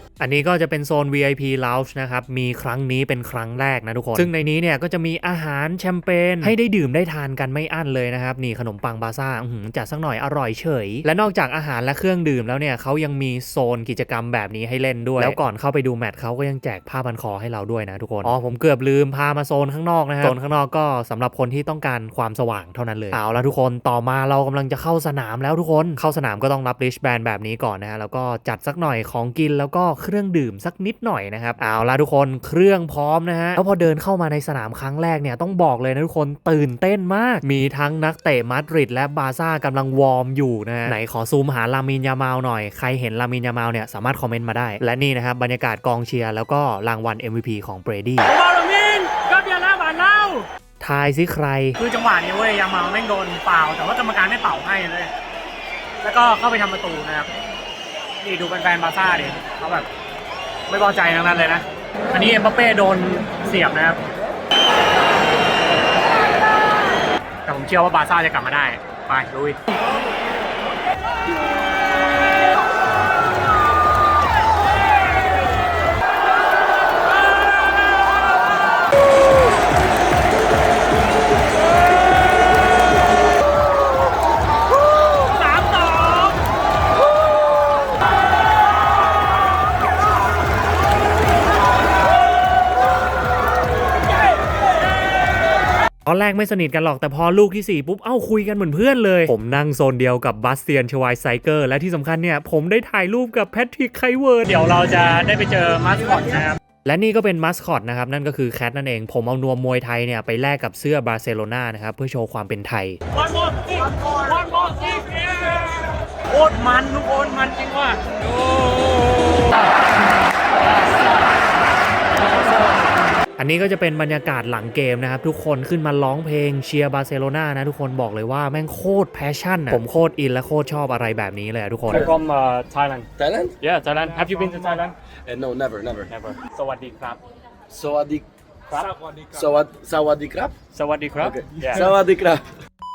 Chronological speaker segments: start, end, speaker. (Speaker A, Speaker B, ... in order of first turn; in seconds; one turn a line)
Speaker A: 0.2-48.3
Speaker B: 48.2-50.5
Speaker A: 50.8-51.8
Speaker B: 51.8-55.1
Speaker B: 56.0-57.3
Speaker B: 58.2-59.9
Speaker B: 60.7-64.0
Speaker B: 67.5-69.6
Speaker B: 85.5-86.1
Speaker A: 96.0-104.6
Speaker B: 104.4-106.6
Speaker A: 106.8-113.0
Speaker B: 113.2-119.7
Speaker B: 120.6-121.3
Speaker A: 123.4-132.1
Speaker B: 131.9-133.1
Speaker C: 133.2-133.6
Speaker B: 133.6-134.9
Speaker C: 135.2-136.1
Speaker B: 136.1-137.2
Speaker C: 137.7-138.2
Speaker B: 138.7-139.2
Speaker C: 139.3-140.5
Speaker B: 140.7-142.0
Speaker C: 141.2-142.4